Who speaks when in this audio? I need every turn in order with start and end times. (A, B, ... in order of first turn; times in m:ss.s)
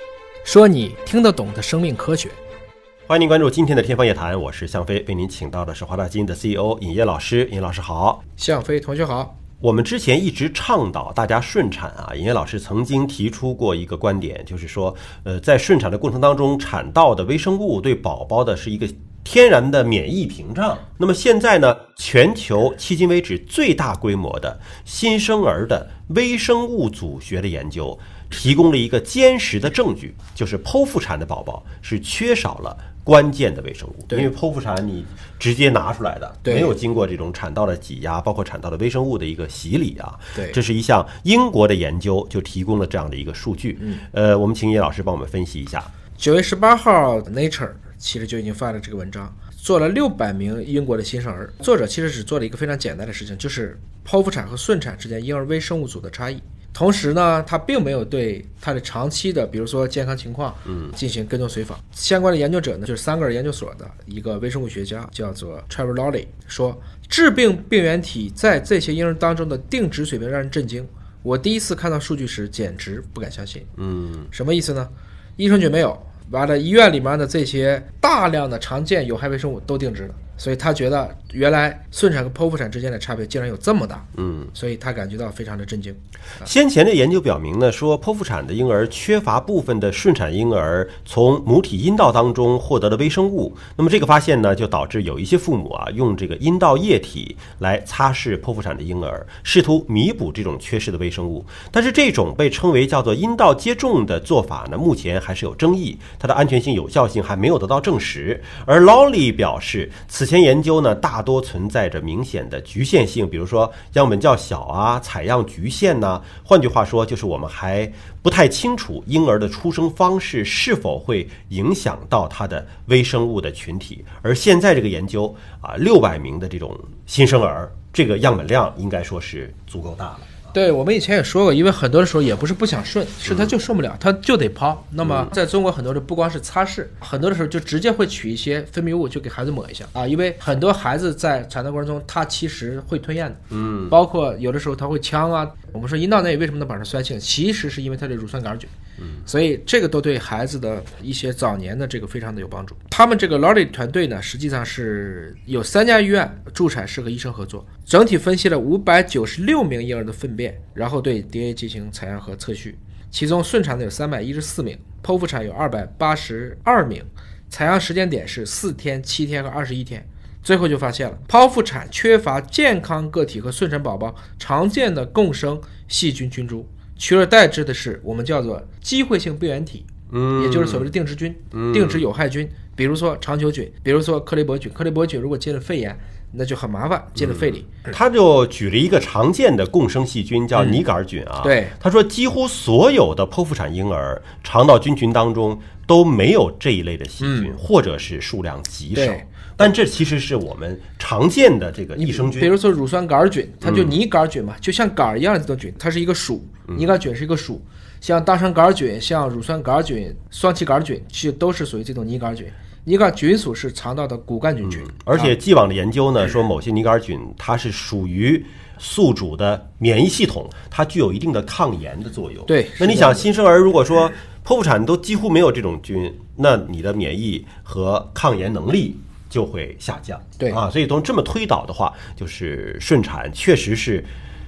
0:00.4-0:02.4 A
0:03.1-0:08.2 B
0:08.4-0:09.3 A
0:09.6-0:45.9 B
0:36.4-0:36.7 A
0:46.2-1:13.7 A
1:13.8-1:14.3 B
1:14.3-1:26.0 A
1:24.2-1:24.5 B
1:26.4-2:10.2 B
2:10.5-2:28.7 A
2:15.0-2:15.3 B
2:23.5-2:23.9 B
2:29.2-3:07.8 A
3:00.1-3:00.9 B
3:01.5-3:02.0 B
3:07.2-3:22.5 B
3:11.4-3:11.7 A
3:17.2-3:17.5 A
3:18.9-3:19.3 A
3:22.0-3:35.3 A
3:23.6-3:24.0 B
3:34.7-3:54.1 B
3:42.5-3:43.3 A